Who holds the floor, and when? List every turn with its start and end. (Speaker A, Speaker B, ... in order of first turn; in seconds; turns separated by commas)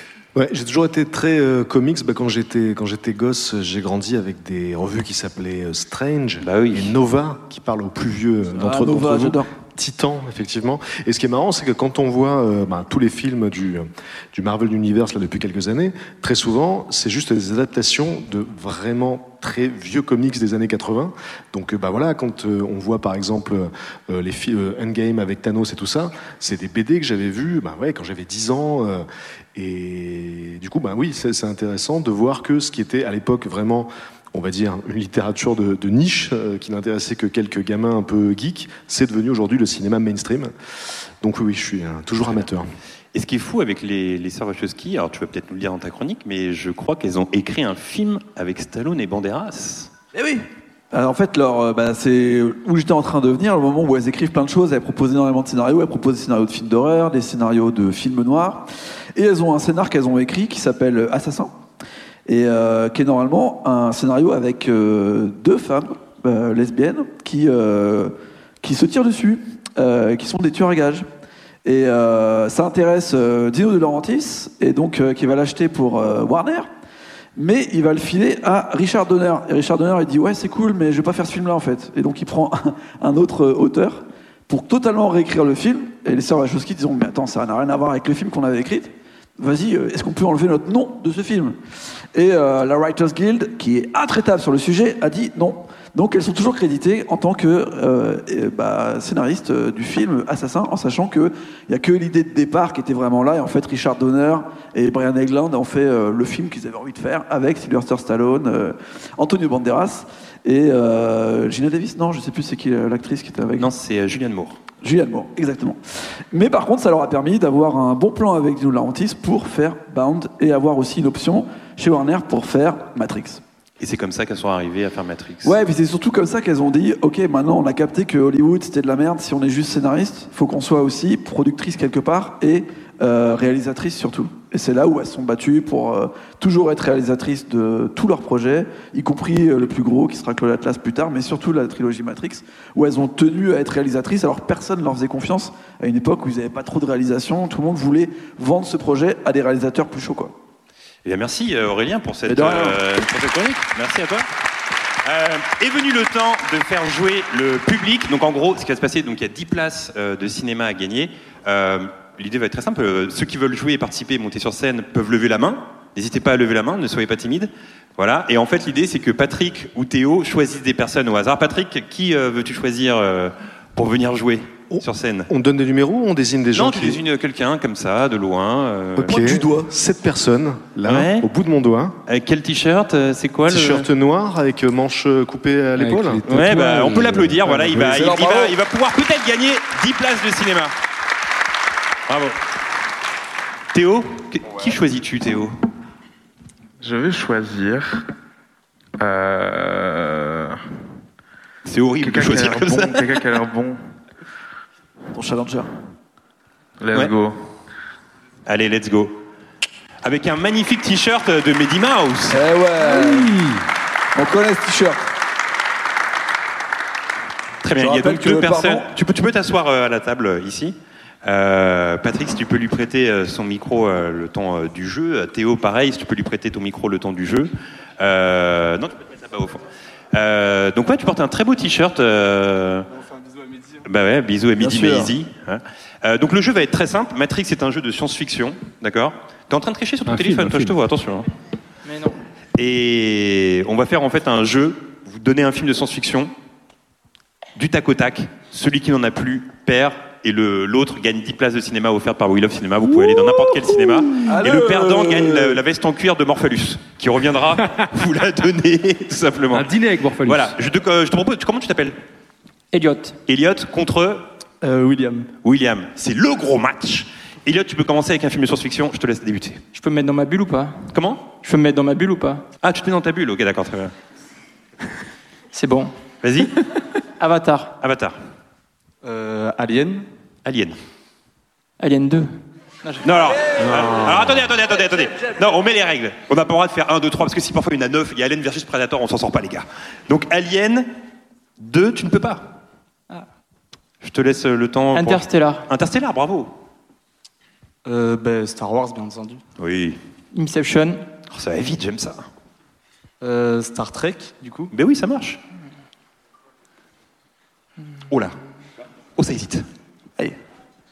Speaker A: 0.3-40.5, Speaker B: 6.4-6.9, Speaker C: 8.6-9.5, Speaker A: 41.2-42.7, Speaker B: 43.1-49.9, Speaker C: 50.1-61.6, Speaker C: 62.3-71.0, Speaker C: 71.6-76.7, Speaker C: 77.3-91.6, Speaker C: 92.1-113.7, Speaker B: 113.5-114.6, Speaker C: 114.8-123.4, Speaker B: 123.8-125.5, Speaker C: 125.4-150.3, Speaker B: 151.0-154.3, Speaker C: 152.3-152.8, Speaker B: 155.0-175.3, Speaker A: 174.7-177.0, Speaker B: 176.5-179.4, Speaker A: 178.9-182.0, Speaker B: 180.8-181.2, Speaker B: 182.1-183.9, Speaker A: 183.5-186.2, Speaker D: 185.8-187.9, Speaker B: 186.3-190.7, Speaker C: 187.7-188.5, Speaker B: 192.1-192.3, Speaker B: 193.7-195.5, Speaker E: 196.8-198.0, Speaker E: 199.0-200.6, Speaker B: 201.7-203.1, Speaker E: 202.0-203.8, Speaker C: 205.1-205.7, Speaker E: 206.8-207.4, Speaker B: 208.4-209.2, Speaker B: 210.0-212.4, Speaker C: 212.3-213.4, Speaker C: 214.1-215.0, Speaker B: 217.6-232.9, Speaker C: 217.8-218.9, Speaker B: 233.8-241.3, Speaker C: 234.6-235.1, Speaker D: 240.1-240.7, Speaker F: 241.8-242.2, Speaker B: 242.6-246.3, Speaker B: 247.6-259.7, Speaker C: 254.2-255.6, Speaker D: 259.5-260.5, Speaker B: 260.2-262.0, Speaker F: 262.7-263.2, Speaker B: 263.3-264.2, Speaker G: 264.6-265.3, Speaker B: 265.4-269.6, Speaker F: 269.7-272.4, Speaker B: 270.9-271.3, Speaker B: 272.6-273.9, Speaker F: 275.5-276.4, Speaker B: 276.2-276.5, Speaker F: 277.2-277.7, Speaker B: 277.8-278.1, Speaker G: 279.0-280.1, Speaker B: 280.4-280.8, Speaker F: 281.8-283.0, Speaker B: 283.0-290.9, Speaker B: 291.6-292.5, Speaker B: 294.0-296.5, Speaker F: 294.9-295.7, Speaker G: 297.8-299.4, Speaker B: 299.6-300.0, Speaker F: 300.3-301.1, Speaker B: 301.3-302.2, Speaker G: 303.2-304.7, Speaker B: 304.7-305.4, Speaker B: 308.1-308.3, Speaker B: 309.2-309.6